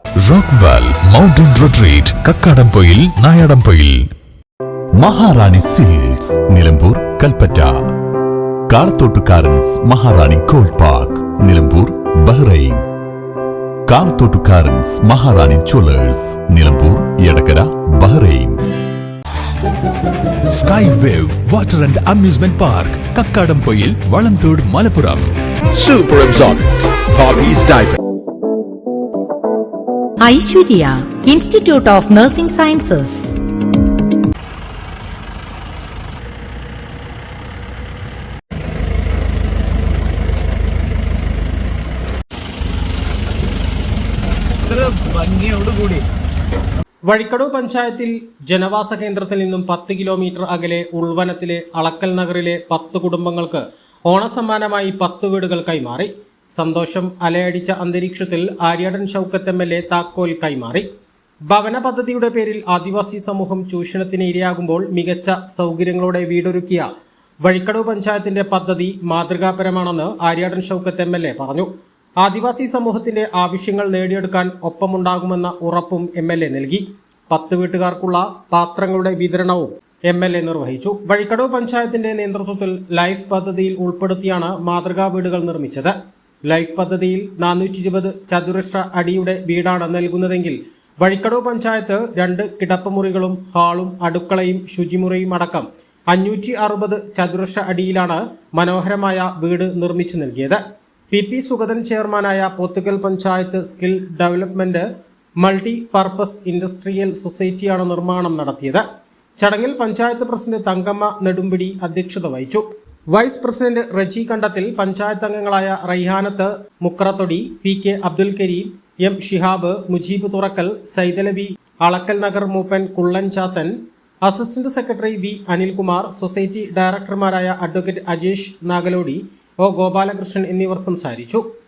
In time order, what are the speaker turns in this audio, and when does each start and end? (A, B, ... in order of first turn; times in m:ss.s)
0:00.2-0:04.1 A
0:05.0-0:07.8 B
0:08.7-0:12.8 B
0:13.9-0:18.6 B
0:20.5-0:25.4 A
0:25.7-0:28.0 C
0:30.2-0:33.3 D
0:47.1-1:00.8 E
1:01.5-1:06.9 E
1:07.4-1:11.7 E
1:12.2-1:25.9 E
1:26.5-1:40.6 E
1:41.1-1:44.8 E
1:45.4-1:48.8 E
1:49.4-2:11.4 E